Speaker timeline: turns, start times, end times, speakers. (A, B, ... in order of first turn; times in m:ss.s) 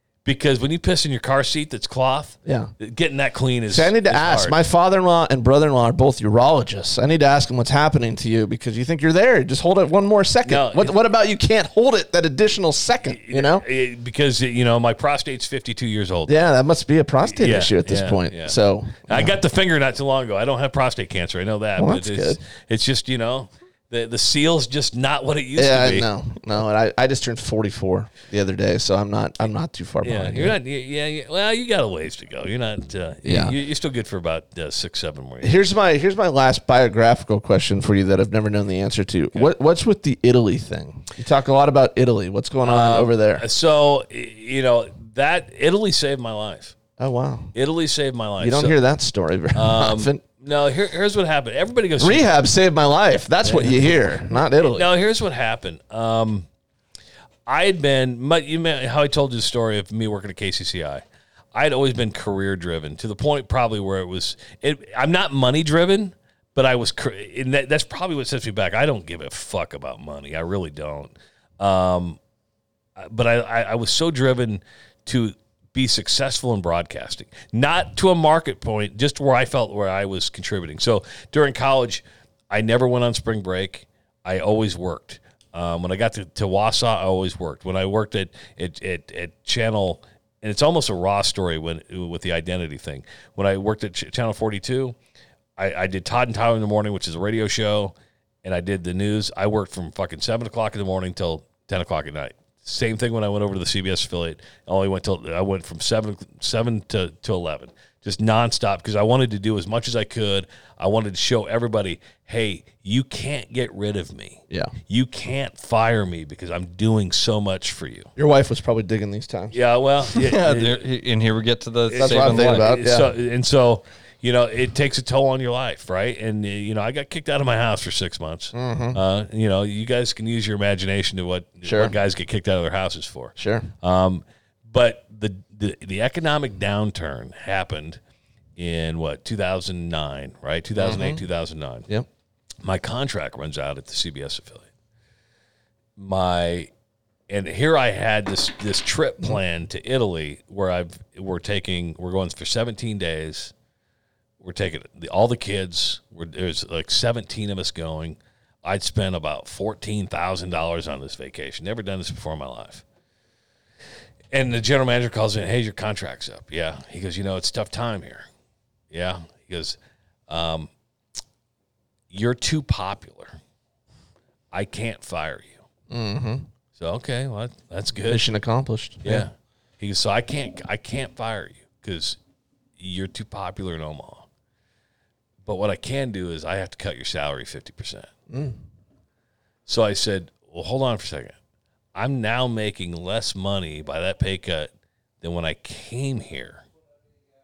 0:00.2-0:04.6 A
0:02.4-0:02.7 B
0:03.7-0:13.6 B
0:10.4-0:11.0 A
0:13.1-0:16.4 A
0:16.3-0:19.4 B
0:17.2-0:18.6 A
0:19.1-0:26.1 A
0:21.8-0:22.4 B
0:25.6-0:30.6 B
0:30.0-0:35.6 A
0:33.2-0:33.5 B
0:35.4-0:43.4 B
0:42.6-0:46.8 A
0:47.0-0:47.5 B
0:47.6-0:48.8 A
0:48.4-0:50.2 B
0:49.5-0:52.3 A
0:52.0-0:54.9 B
0:53.4-0:54.0 A
0:54.6-0:56.5 A
0:57.5-1:01.0 A
1:01.5-1:12.2 A
1:13.0-1:35.0 A
1:35.6-1:58.1 A
1:58.2-1:59.6 B
1:59.5-2:00.8 A
2:00.1-2:02.7 C
2:01.9-2:18.0 A
2:02.0-2:03.1 B
2:08.5-2:09.0 B
2:11.6-2:12.0 B
2:13.4-2:13.7 B
2:18.6-2:21.9 A
2:20.8-2:21.2 B
2:22.6-2:24.7 A
2:26.0-2:26.7 A
2:27.3-2:33.5 A
2:34.4-2:42.8 A
2:44.3-2:48.3 A
2:48.9-2:49.8 A
2:50.3-2:50.7 A
2:52.1-2:53.4 A
2:54.5-2:55.6 A
2:55.9-2:56.5 B
2:56.8-2:58.2 A
2:58.1-2:59.3 B
2:59.0-3:02.2 A
3:02.8-3:04.3 A
3:05.5-3:08.1 A
3:08.3-3:08.6 B
3:09.7-3:11.4 A
3:12.0-3:14.7 A
3:15.2-3:16.6 A